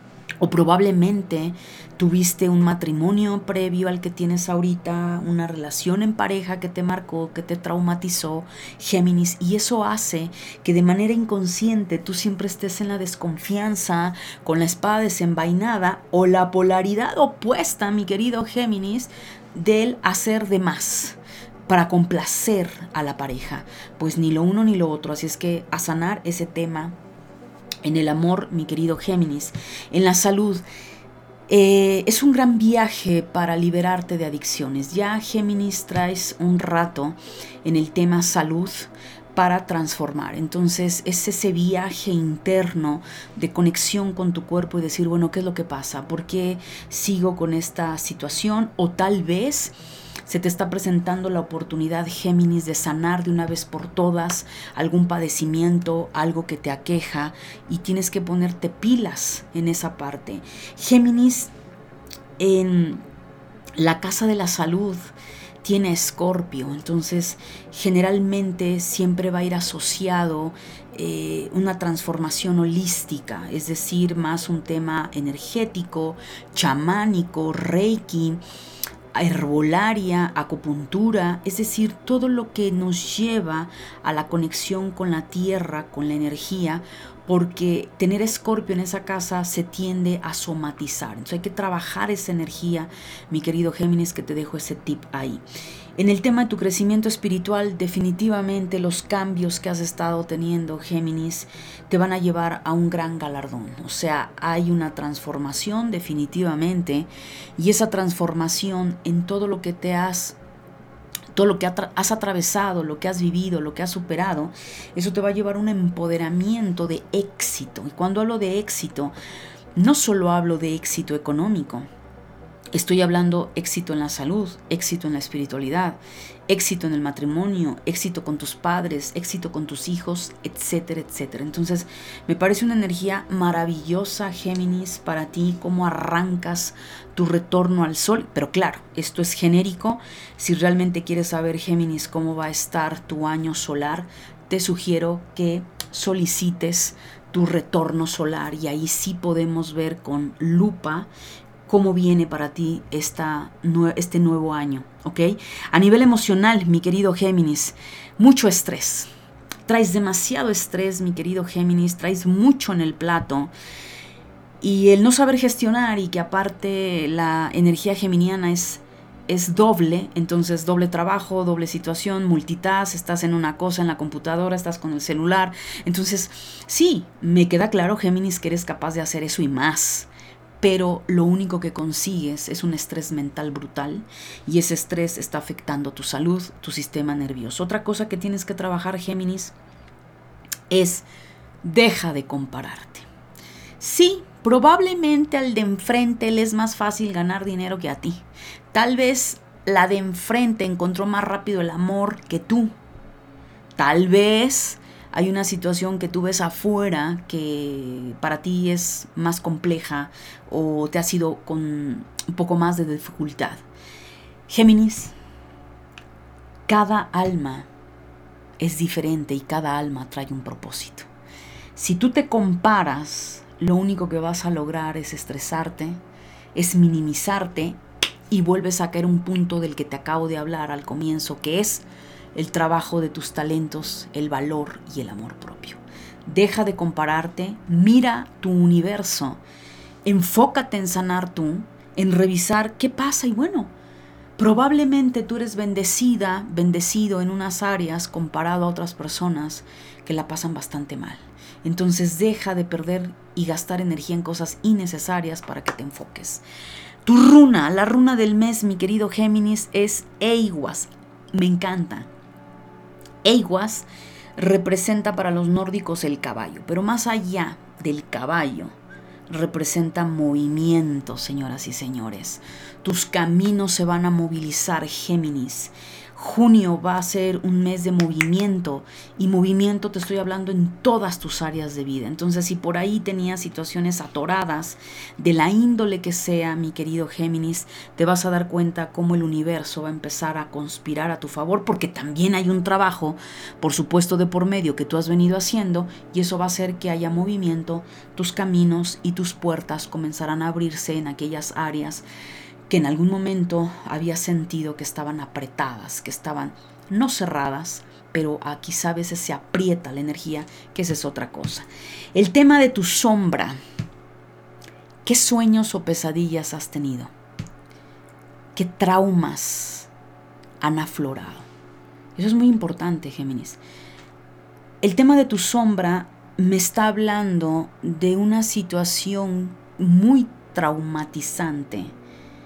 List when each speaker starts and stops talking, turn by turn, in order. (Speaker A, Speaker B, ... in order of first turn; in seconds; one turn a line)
Speaker A: 0.4-26.9
Speaker A: 27.8-30.6
Speaker A: 31.5-49.7
Speaker A: 50.3-61.5
Speaker A: 62.4-63.0
Speaker A: 63.8-78.4
Speaker A: 79.1-95.4
Speaker A: 96.0-110.4
Speaker A: 111.3-119.1
Speaker A: 119.7-121.9
Speaker A: 122.7-151.1
Speaker A: 151.7-159.1
Speaker A: 159.7-163.5
Speaker A: 164.6-180.1
Speaker A: 180.6-189.5
Speaker A: 190.7-191.1
Speaker A: 191.6-193.1
Speaker A: 193.8-202.7
Speaker A: 203.8-213.6
Speaker A: 214.5-215.1
Speaker A: 216.7-217.7
Speaker A: 218.6-221.1
Speaker A: 221.7-226.0
Speaker A: 226.5-239.4
Speaker A: 240.0-243.7
Speaker A: 244.4-256.4
Speaker A: 257.1-262.1
Speaker A: 263.2-268.7
Speaker A: 269.3-302.0
Speaker A: 302.7-313.6
Speaker A: 315.0-317.1
Speaker A: 318.5-319.9
Speaker A: 320.6-321.5
Speaker A: 322.1-323.6
Speaker A: 324.8-331.9